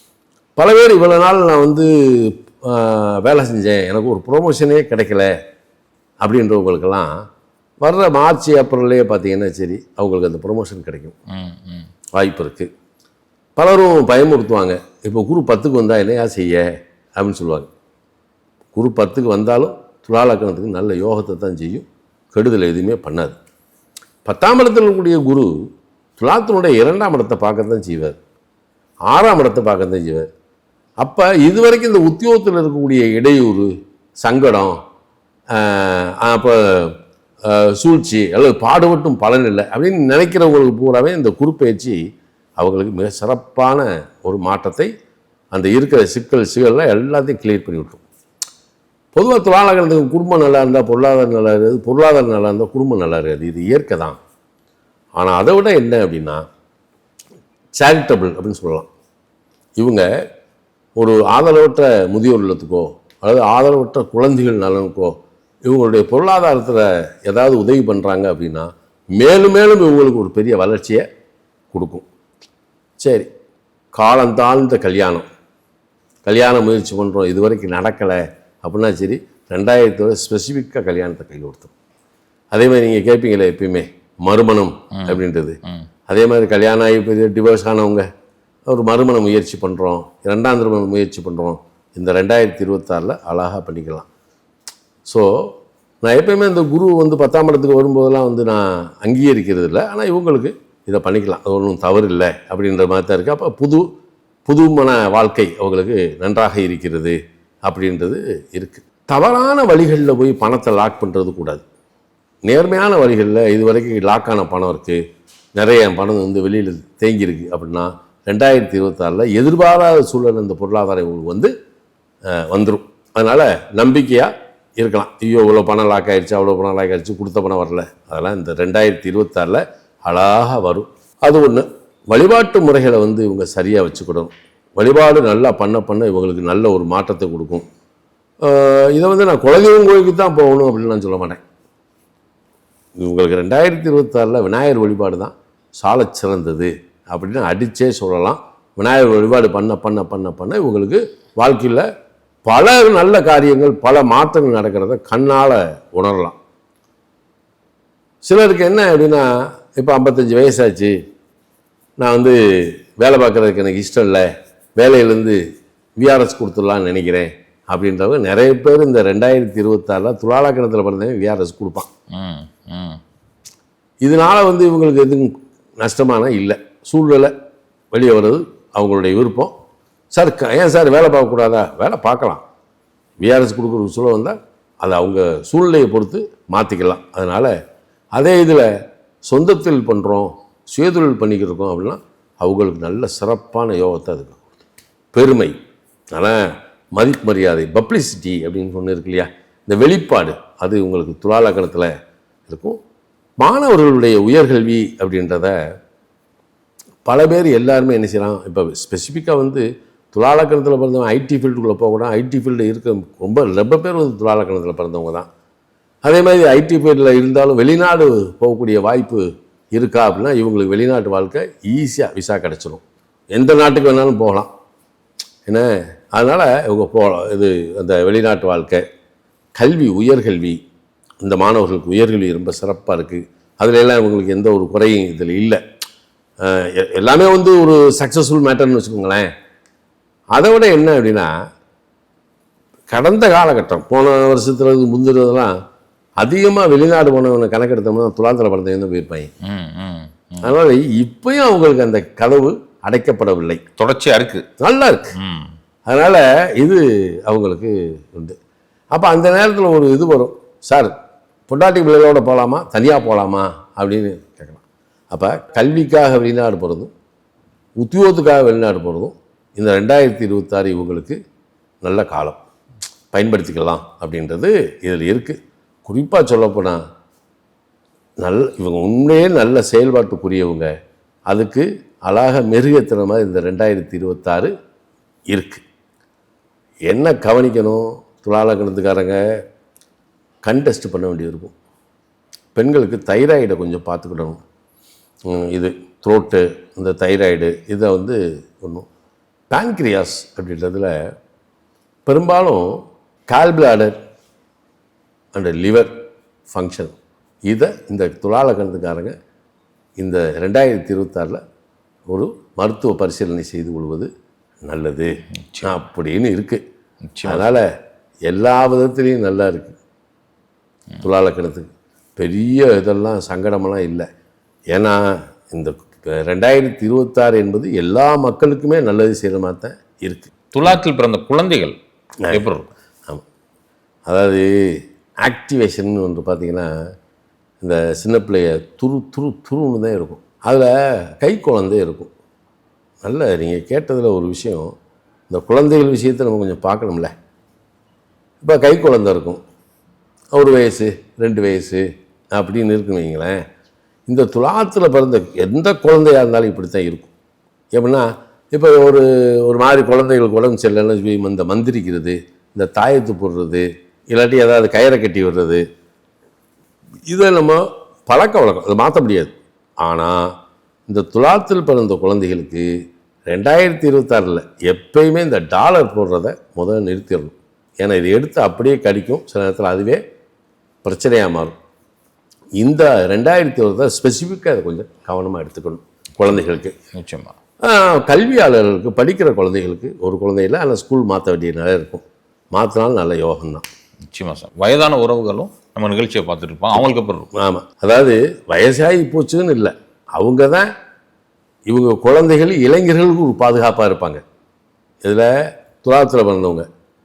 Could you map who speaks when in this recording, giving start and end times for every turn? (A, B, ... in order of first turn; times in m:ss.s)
0:00.6-0:05.3 A
0:06.2-0:07.1 A
0:07.8-0:11.1 A
0:11.3-0:11.9 B
0:12.1-0:12.7 A
0:13.6-0:16.6 A
0:17.2-0:17.7 A
0:18.7-0:23.4 A
0:24.2-0:25.5 A
0:26.2-0:28.2 A
0:29.1-0:30.3 A
0:31.0-0:33.7 A
0:34.2-0:34.7 A
0:35.5-0:36.9 A
0:37.5-0:42.0 A
0:42.6-0:44.9 A
0:45.5-0:48.0 A
0:49.1-0:54.2 A
0:55.2-0:56.4 A
0:57.8-0:58.9 A
0:59.8-1:00.1 A
1:01.0-1:05.1 A
1:05.6-1:11.0 A
1:11.7-1:12.0 A
1:13.0-1:13.3 A
1:14.0-1:15.2 A
1:16.2-1:21.7 A
1:22.5-1:28.0 A
1:25.0-1:25.8 B
1:28.7-1:34.1 A
1:36.0-1:43.8 A
1:44.4-1:51.6 A
1:52.4-1:55.0 A
1:55.6-2:01.5 A
2:02.3-2:17.6 A
2:18.4-2:21.4 A
2:23.0-2:31.8 A
2:32.4-2:36.4 A
2:38.2-2:40.9 A
2:42.0-2:44.2 A
2:44.8-2:45.4 A
2:46.0-2:51.9 A
2:52.1-2:53.0 B
2:54.0-2:57.3 A
2:57.9-2:59.5 A
3:00.1-3:02.4 A
3:03.2-3:07.5 A
3:08.1-3:08.7 A
3:09.3-3:14.4 A
3:15.1-3:15.5 A
3:16.1-3:16.4 A
3:17.0-3:21.9 A
3:22.5-3:22.8 A
3:23.4-3:25.5 A
3:27.0-3:35.3 A
3:36.0-3:39.2 A
3:39.7-3:42.8 A
3:43.3-3:44.5 A
3:45.4-3:48.8 A
3:49.6-3:50.6 A
3:51.2-3:55.6 A
3:56.4-3:59.3 A
4:00.3-4:01.3 A
4:02.9-4:05.5 A
4:06.2-4:09.3 A
4:09.4-4:10.5 B
4:10.4-4:13.6 A
4:13.8-4:14.4 B
4:14.6-4:15.1 A
4:15.2-4:15.5 B
4:15.8-4:18.4 A
4:18.9-4:20.9 A
4:21.5-4:26.9 A
4:27.8-4:31.2 A
4:31.8-4:32.4 A
4:33.1-4:36.8 A
4:38.2-4:40.7 A
4:41.3-4:44.5 A
4:45.3-4:45.6 A
4:46.9-4:49.2 A
4:50.4-4:51.5 A
4:52.5-4:54.4 A
4:55.3-4:58.9 A
4:59.5-5:00.9 A
5:02.0-5:02.7 A
5:03.3-5:03.9 A
5:05.3-5:05.9 A
5:06.5-5:06.9 A
5:07.5-5:09.1 A
5:10.0-5:11.4 A
5:12.1-5:14.1 A
5:14.6-5:15.1 A
5:15.4-5:15.8 B
5:15.6-5:16.6 A
5:17.1-5:17.5 B
5:17.2-5:17.6 A
5:18.3-5:19.8 A
5:21.0-5:24.0 A
5:24.7-5:30.3 A
5:30.5-5:31.8 B
5:32.3-5:32.7 B
5:34.1-5:34.5 A
5:35.2-5:36.7 A
5:37.6-5:42.1 A
5:43.0-5:44.7 A
5:45.3-5:47.1 A
5:48.4-5:49.4 A
5:50.3-5:53.4 A
5:54.1-5:57.1 A
5:57.7-6:05.6 A
6:07.1-6:10.3 A
6:10.9-6:12.6 A
6:13.3-6:20.0 A
6:20.8-6:21.5 A
6:22.6-6:26.7 A
6:26.9-6:27.3 B
6:27.6-6:33.6 A
6:34.1-6:37.3 B
6:37.3-6:40.7 A
6:41.7-6:44.2 A
6:45.0-6:45.3 A
6:45.8-6:46.7 A